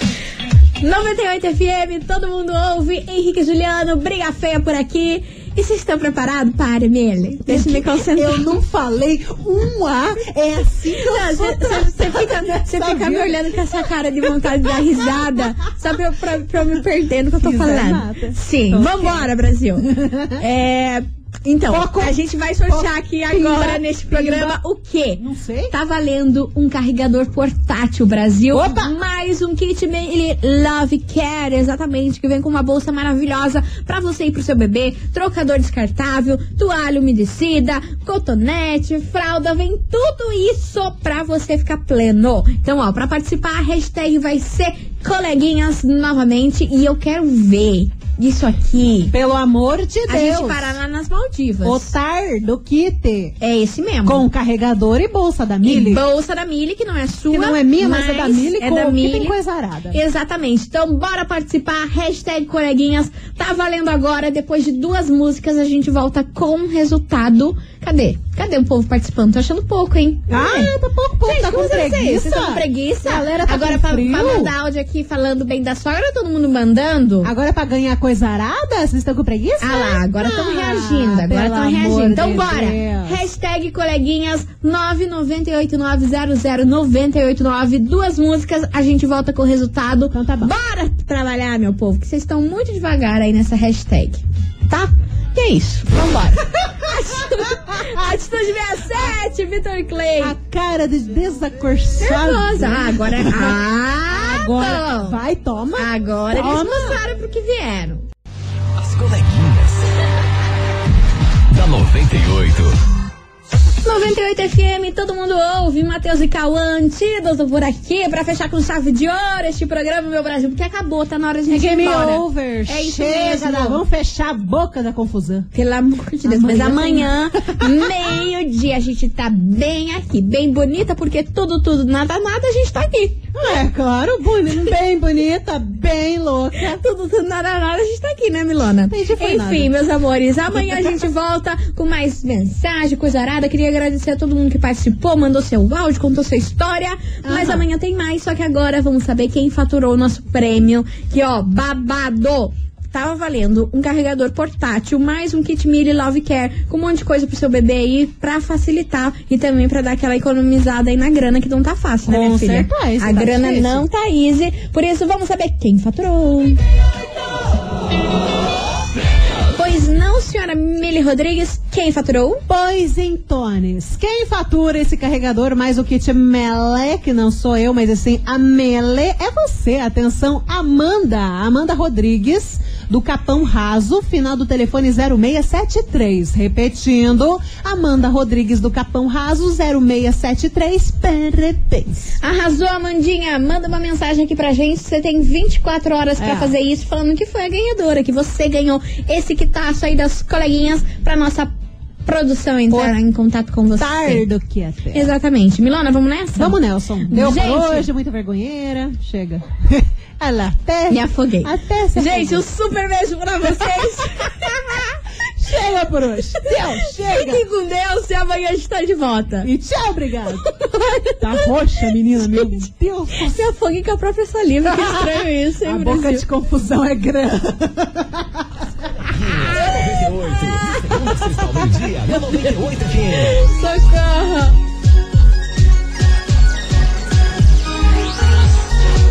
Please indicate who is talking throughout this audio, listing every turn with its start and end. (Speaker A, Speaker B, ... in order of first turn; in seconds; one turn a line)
Speaker A: 0.8-8.6
Speaker B: 7.5-15.4
Speaker A: 11.0-49.1
Speaker B: 17.4-19.3
Speaker B: 19.9-20.4
Speaker B: 21.7-24.6
Speaker B: 25.2-25.7
Speaker B: 28.5-28.9
Speaker B: 49.1-50.8
Speaker A: 50.1-51.9
Speaker B: 51.6-53.4
Speaker A: 53.4-54.3
Speaker B: 54.0-56.0
Speaker A: 55.6-59.4
Speaker B: 57.3-60.0
Speaker A: 59.9-70.7
Speaker B: 70.3-74.5
Speaker A: 71.2-77.3
Speaker B: 77.2-83.2
Speaker A: 79.6-100.4
Speaker B: 90.1-90.5
Speaker B: 97.3-97.9
Speaker B: 100.2-107.0
Speaker A: 102.0-105.2
Speaker A: 105.8-108.1
Speaker C: 108.8-109.8
Speaker C: 111.5-112.8
Speaker A: 113.8-123.8
Speaker B: 121.5-125.5
Speaker A: 125.5-133.2
Speaker B: 126.2-128.1
Speaker B: 133.3-136.8
Speaker A: 136.6-166.6
Speaker B: 138.9-139.7
Speaker B: 147.2-147.7
Speaker B: 162.1-163.9
Speaker A: 169.5-172.4
Speaker B: 172.5-192.2
Speaker A: 192.2-201.5
Speaker B: 196.2-196.6
Speaker A: 202.1-204.2
Speaker B: 202.7-203.0
Speaker B: 203.8-205.1
Speaker A: 204.9-207.9
Speaker B: 206.4-212.4
Speaker A: 210.9-215.0
Speaker B: 213.7-214.5
Speaker B: 215.4-217.4
Speaker A: 216.5-219.5
Speaker B: 219.4-223.4
Speaker A: 221.1-221.4
Speaker A: 222.2-222.6
Speaker A: 223.2-226.2
Speaker B: 224.7-228.5
Speaker C: 229.1-233.4
Speaker A: 233.2-234.6